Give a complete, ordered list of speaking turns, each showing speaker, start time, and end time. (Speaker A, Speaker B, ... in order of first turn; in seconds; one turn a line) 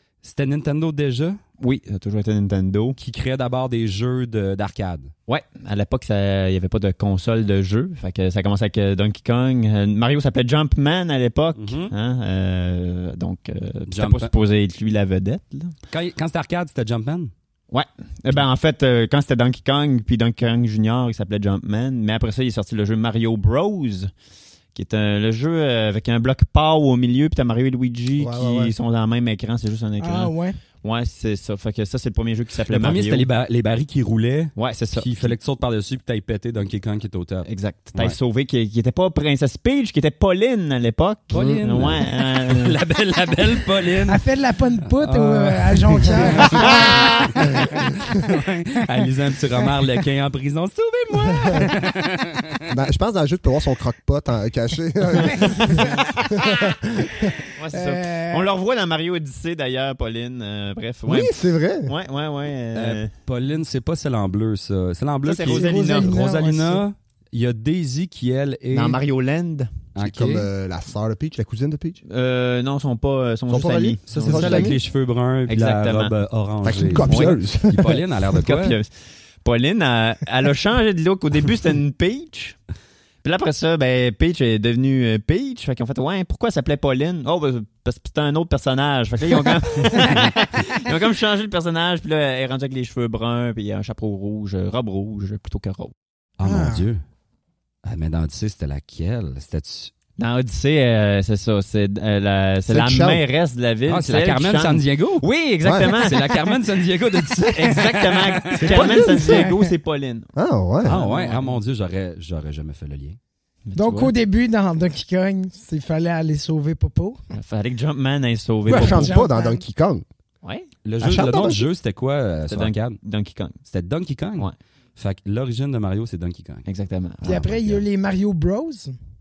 Speaker A: 0.2-1.4
Speaker B: 1.6-3.0
Speaker A: 3.0-5.1
Speaker B: 5.3-15.7
Speaker A: 11.6-11.9
Speaker A: 13.9-14.3
Speaker A: 15.9-17.3
Speaker B: 17.7-24.1
Speaker B: 24.7-30.3
Speaker C: 28.2-28.7
Speaker D: 30.0-30.6
Speaker B: 30.8-33.3
Speaker A: 32.7-38.2
Speaker B: 34.5-35.3
Speaker B: 37.5-42.8
Speaker A: 41.3-44.2
Speaker C: 41.3-42.0
Speaker D: 44.1-47.8
Speaker A: 44.9-52.7
Speaker C: 52.7-57.4
Speaker D: 55.3-55.9
Speaker D: 57.3-58.5
Speaker B: 57.6-63.1
Speaker C: 61.0-61.9
Speaker A: 62.7-69.0
Speaker B: 65.2-66.1
Speaker D: 65.4-66.8
Speaker B: 68.7-69.9
Speaker A: 69.9-70.5
Speaker C: 70.0-72.0
Speaker B: 72.0-74.8
Speaker C: 73.5-74.8
Speaker A: 74.1-78.7
Speaker B: 75.5-76.1
Speaker C: 76.6-78.0
Speaker B: 76.9-77.4
Speaker B: 78.3-78.9
Speaker B: 79.4-82.6
Speaker B: 83.2-95.9
Speaker A: 96.4-97.0
Speaker D: 96.4-96.8
Speaker A: 97.8-99.9
Speaker B: 100.2-106.6
Speaker C: 102.7-103.2
Speaker A: 103.9-105.2
Speaker C: 105.6-105.9
Speaker A: 105.8-109.0
Speaker B: 107.2-110.3
Speaker C: 108.6-109.3
Speaker D: 108.7-109.7
Speaker C: 110.3-111.0
Speaker B: 110.8-111.6
Speaker A: 110.8-113.2
Speaker B: 113.7-114.1
Speaker D: 113.8-117.2
Speaker B: 117.3-119.1
Speaker C: 118.7-120.0
Speaker D: 118.7-119.6
Speaker B: 120.4-120.7
Speaker A: 120.8-123.0
Speaker C: 121.0-121.7
Speaker B: 122.5-123.6
Speaker A: 123.7-126.6
Speaker B: 126.7-127.8
Speaker D: 127.2-128.9